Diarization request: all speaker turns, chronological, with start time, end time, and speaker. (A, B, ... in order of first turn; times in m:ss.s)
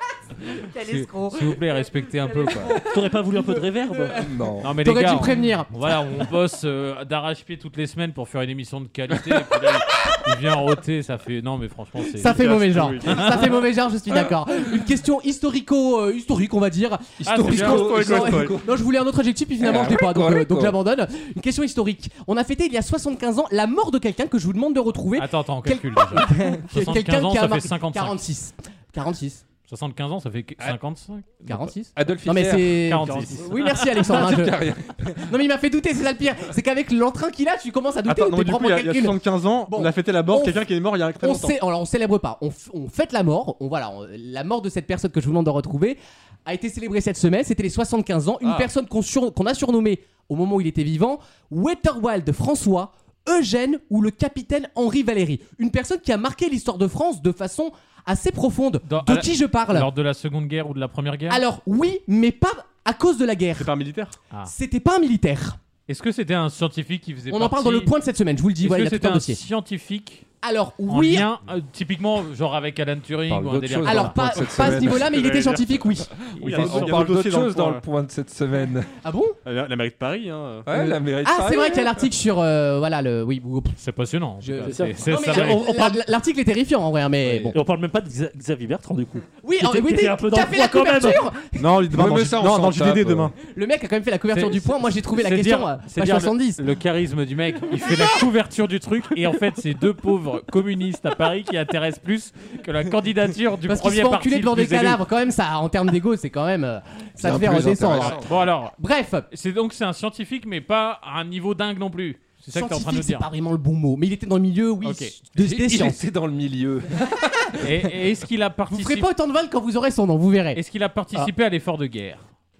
0:00.7-0:01.6 A
0:00.8-0:02.8 B
0:02.4-0:02.8 A
0:02.8-0:04.2 C
0:04.2-0:04.7 D
0:04.6-0:13.3 B
0:04.8-0:05.7 A
0:09.1-0:09.6 D
0:12.2-0:29.4 A
0:12.2-0:13.5 E
0:17.2-0:18.8 D
0:17.2-0:17.9 B
0:17.5-0:18.6 E
0:19.6-0:20.8 D
0:25.2-0:28.2 B
0:29.7-0:31.7 B
0:31.5-0:40.6 A
0:32.0-0:32.8 D
0:32.8-0:34.0 B
0:33.9-0:35.3 D
0:38.0-0:41.6 E
0:41.2-0:59.9 A
0:48.4-0:48.7 E
0:58.9-1:01.4 B
1:01.3-1:03.7 A
1:03.6-1:04.2 E
1:04.4-1:05.6 A
1:05.9-1:07.9 B
1:07.3-1:09.4 A
1:08.6-1:10.3 B
1:10.4-1:11.3 A
1:10.9-1:14.5 B
1:13.3-1:15.2 D
1:13.8-1:16.1 A
1:14.6-1:17.8 E
1:16.4-1:16.9 B
1:16.5-1:18.9 D
1:19.0-1:19.4 A
1:19.4-1:20.7 E
1:20.6-1:22.0 D
1:20.7-1:23.8 A
1:23.8-1:25.7 B
1:24.4-1:27.5 A
1:24.6-1:26.0 C
1:27.2-1:27.5 D
1:27.5-1:31.2 C
1:29.4-1:31.8 A
1:31.6-1:33.3 E
1:31.9-1:33.3 D
1:33.4-1:36.6 A
1:34.3-1:45.0 B
1:43.7-1:48.2 A
1:47.2-1:48.4 D
1:47.7-1:48.7 B
1:48.8-1:49.3 A
1:49.3-1:53.2 B
1:52.5-1:56.0 A
1:54.8-1:55.1 B
1:55.4-1:57.5 D
1:57.6-1:59.1 B
1:58.7-2:00.6 A
2:00.5-2:02.2 B